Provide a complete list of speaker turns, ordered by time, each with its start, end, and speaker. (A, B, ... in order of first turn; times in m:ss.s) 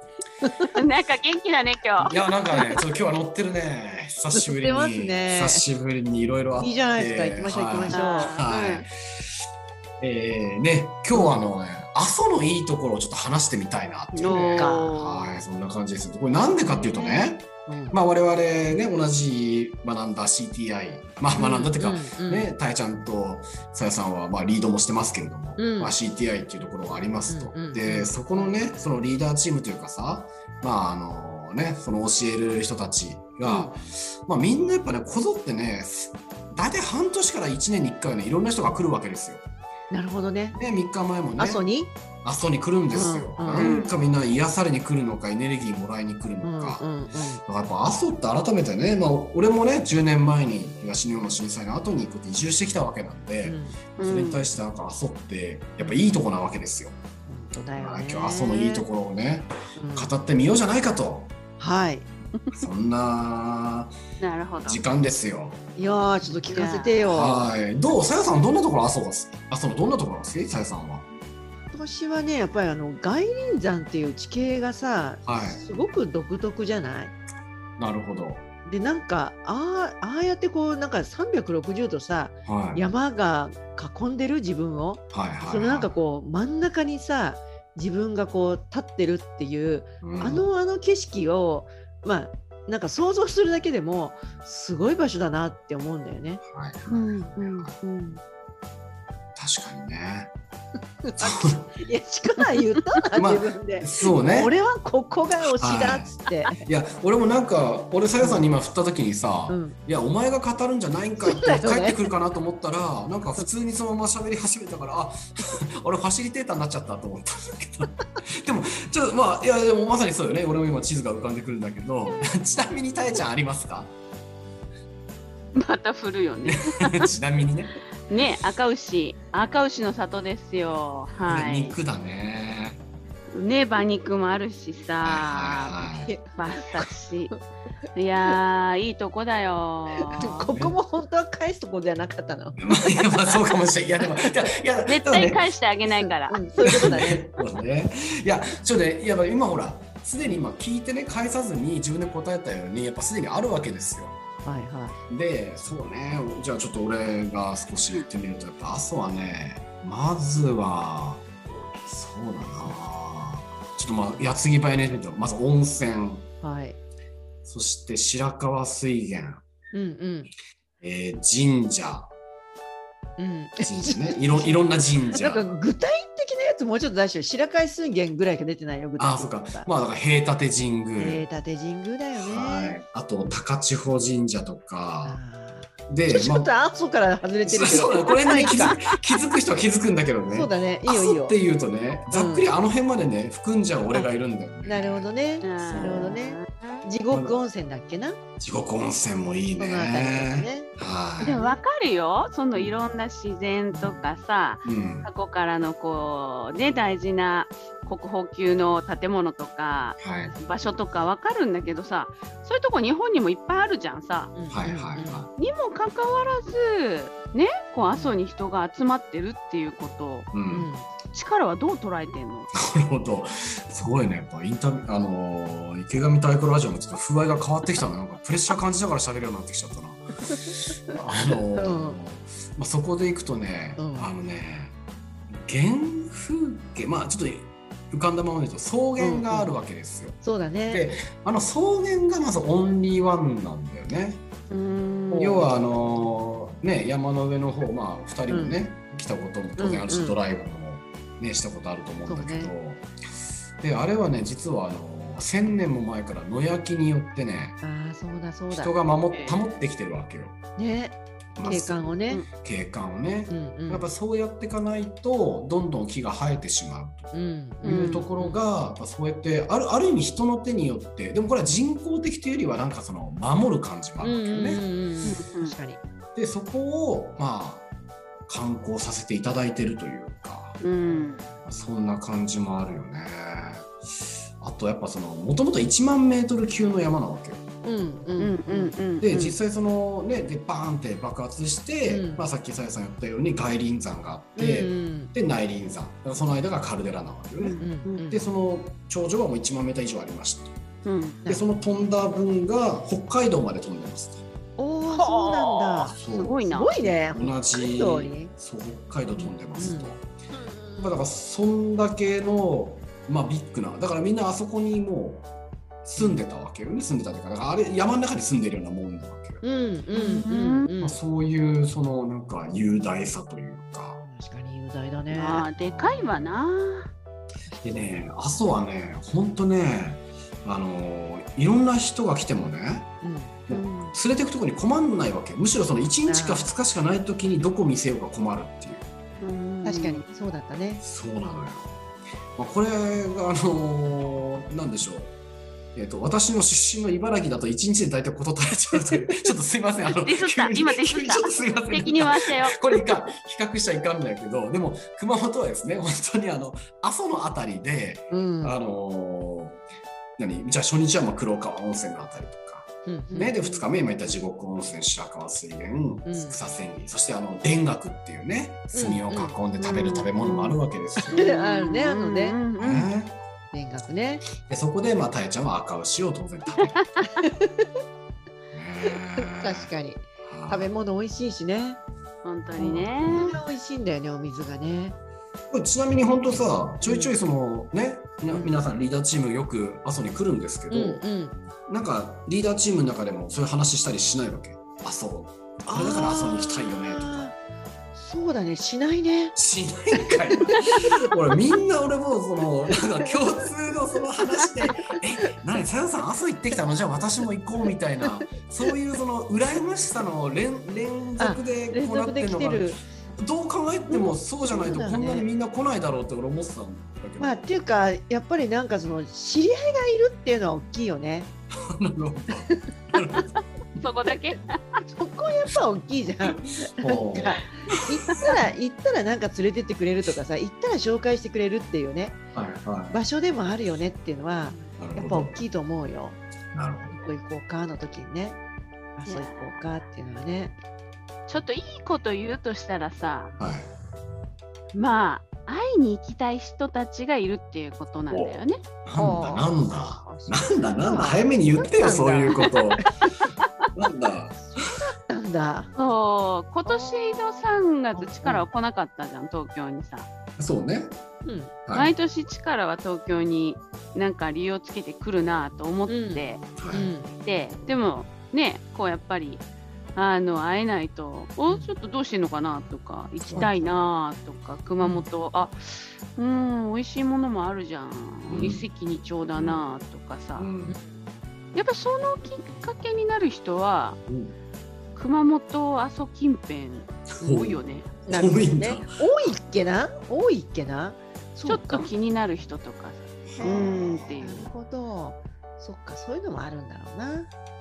0:00.7-0:02.1 A
0:02.1-0:08.9 B
0:04.4-0:05.7 C
0:06.6-0:08.4 C
0:07.9-0:08.9 A
0:10.0-0:39.4 B
0:11.1-0:11.4 C
0:14.1-0:15.3 A
0:14.5-0:14.9 C
0:16.6-0:17.3 A
0:17.7-0:18.0 C
0:21.3-0:22.5 C
0:25.6-0:26.0 C
0:27.3-0:28.6 C
0:33.4-0:33.7 C
0:39.9-0:40.6 C
0:40.5-0:41.6 B
0:41.4-0:41.9 C
0:42.2-0:46.8 B
0:42.9-0:43.8 C
0:43.5-0:43.9 A
0:46.4-0:47.4 C
0:47.5-0:57.0 B
0:53.4-0:53.8 C
0:54.0-0:54.4 A
0:55.8-0:56.2 C
0:57.3-0:58.9 C
0:57.8-1:01.3 B
0:59.8-1:00.1 C
1:01.6-1:02.1 C
1:02.5-1:03.9 B
1:04.2-1:04.8 A
1:04.6-1:05.6 B
1:05.8-1:07.5 C
1:06.5-1:07.0 A
1:07.1-1:11.0 B
1:11.7-1:17.2 C
1:15.2-1:15.6 B
1:17.8-1:18.4 B
1:18.6-1:36.4 C
1:22.5-1:22.8 B
1:25.1-1:25.9 B
1:30.0-1:30.5 B
1:36.4-1:37.7 B
1:36.9-1:38.2 A
1:39.4-1:40.3 B
1:41.0-1:46.6 C
1:41.2-1:41.8 B
1:43.1-1:44.5 B
1:45.6-2:03.9 B
1:48.2-1:48.5 C
1:49.5-1:49.8 C
1:51.2-1:52.0 C
2:05.6-2:07.1 A
2:06.5-2:07.8 B
2:08.1-2:11.8 A
2:11.3-2:12.8 B
2:13.3-2:15.8 A
2:15.0-2:16.1 B
2:16.1-2:16.4 C
2:16.4-2:17.3 A
2:18.0-2:20.5 A
2:20.0-2:22.6 C
2:22.6-2:25.4 B
2:24.9-2:26.5 A
2:25.9-2:27.3 C
2:26.6-2:34.2 B
2:34.4-2:35.0 C
2:35.1-2:41.3 B
2:41.8-2:46.3 B
2:46.4-2:46.8 C
2:47.4-2:49.4 B
2:49.7-2:50.3 C
2:50.8-2:52.1 B
2:53.2-2:59.7 C
2:53.6-2:55.6 B
2:59.0-3:01.3 B
3:01.0-3:02.8 C
3:02.1-3:05.2 B
3:05.0-3:08.8 C
3:05.9-3:06.5 B
3:07.4-3:16.2 B
3:10.3-3:11.4 C
3:12.1-3:12.5 C
3:14.6-3:18.2 C
3:15.4-3:16.9 A
3:17.1-3:17.4 B
3:18.4-3:21.4 B
3:19.6-3:20.7 C
3:21.2-3:34.4 A
3:21.4-3:21.6 C
3:24.6-3:25.1 B
3:30.0-3:30.4 B
3:34.3-3:35.3 C
3:34.5-3:35.3 B
3:35.4-3:40.3 A
3:40.3-3:40.7 B
3:40.5-3:40.9 C
3:41.1-3:42.5 A
3:42.6-3:54.8 B
3:51.6-3:52.0 C
3:53.8-3:54.1 C
3:55.3-4:04.2 B
3:59.0-3:59.6 C
4:00.2-4:00.8 C
4:04.5-4:05.5 A
4:05.1-4:12.9 B
4:08.3-4:08.6 C
4:09.6-4:10.2 C
4:12.1-4:12.5 C
4:13.6-4:17.6 B
4:17.6-4:18.7 C
4:18.5-4:20.4 B
4:19.1-4:19.4 A
4:20.6-4:22.2 C
4:21.4-4:27.1 B
4:23.3-4:23.9 C
4:27.1-4:28.0 C
4:27.6-4:28.4 A
4:27.6-4:34.6 B
4:34.0-4:35.8 C
4:35.0-4:35.6 A
4:36.2-4:37.7 B
4:38.3-4:40.6 B
4:40.6-4:41.3 A
4:40.8-4:41.4 C
4:41.4-4:43.7 B
4:44.4-4:47.5 B
4:47.6-4:48.8 C
4:48.2-4:49.4 A
4:49.0-5:00.6 B
4:51.9-4:52.3 C
4:54.4-4:55.1 C
4:57.4-4:58.2 A
4:57.6-4:58.2 C
5:00.8-5:01.2 A
5:01.3-5:04.2 B
5:04.6-5:08.3 C
5:04.9-5:07.0 A
5:05.9-5:06.4 B
5:07.0-5:10.0 B
5:09.2-5:11.0 C
5:10.8-5:15.3 B
5:15.8-5:19.4 B
5:16.0-5:16.2 C
5:19.4-5:21.0 C
5:19.9-5:20.7 A
5:20.8-5:24.0 B
5:24.0-5:25.5 C
5:25.1-5:26.9 A
5:25.6-5:26.3 B
5:27.6-5:32.9 B
5:33.0-5:33.4 C
5:33.5-5:38.9 B
5:33.5-5:34.0 A
5:36.1-5:36.5 C
5:39.2-5:40.0 A
5:39.6-5:40.8 C
5:40.8-5:41.8 B
5:42.4-5:45.1 B
5:45.8-5:59.6 B
5:49.9-5:52.9 A
5:58.1-5:58.6 C
6:00.2-6:11.2 B
6:02.9-6:03.3 C
6:03.1-6:03.7 A
6:06.1-6:06.4 C
6:08.8-6:09.0 C
6:09.1-6:10.6 A
6:11.1-6:12.4 C
6:11.1-6:12.9 A
6:12.6-6:13.2 B
6:13.5-6:14.3 C
6:14.4-6:16.8 B
6:16.6-6:17.2 A
6:17.2-6:17.7 C
6:18.5-6:19.7 B
6:18.9-6:21.8 C
6:20.2-6:20.7 B
6:22.2-6:23.4 A
6:22.6-6:23.0 B
6:23.1-6:25.0 C
6:25.5-6:31.0 B
6:26.8-6:27.2 C
6:28.3-6:28.6 C
6:30.7-6:31.4 C
6:31.7-6:37.3 B
6:35.7-6:37.4 C
6:38.0-6:39.4 C
6:39.4-6:57.6 B
6:40.4-6:40.7 C
6:51.2-6:52.8 C
6:53.9-6:55.3 C
6:57.2-7:01.3 C
7:01.7-7:03.3 B
7:03.8-7:04.8 A
7:04.9-7:12.2 C
7:06.3-7:08.2 B
7:12.3-7:13.0 B
7:12.9-7:16.2 C
7:14.8-7:15.4 B
7:16.5-7:17.0 B
7:17.0-7:18.4 C
7:19.0-7:20.6 C
7:19.1-7:19.5 A
7:21.3-7:23.4 A
7:23.4-7:23.7 B
7:24.7-7:28.6 A
7:28.1-7:32.8 B
7:29.0-7:33.1 C
7:33.7-7:34.8 B
7:34.5-7:35.7 C
7:35.8-7:40.1 A
7:36.7-7:37.3 C
7:38.0-7:38.5 C
7:40.4-7:41.0 B
7:41.2-7:41.6 C
7:41.7-7:41.9 B
7:41.7-7:46.5 A
7:45.9-7:47.1 C
7:46.6-7:46.9 B
7:47.2-7:49.4 A
7:50.0-8:00.5 A
7:53.2-7:53.5 B
7:54.8-7:55.1 C
7:58.3-7:58.6 B
7:59.4-7:59.6 B
8:00.4-8:00.8 B
8:00.7-8:01.0 C
8:01.5-8:04.0 A
8:04.1-8:04.3 B
8:05.0-8:08.0 A
8:07.2-8:09.4 B
8:08.1-8:11.9 C
8:11.5-8:14.5 A
8:13.4-8:14.2 B
8:13.4-8:17.3 C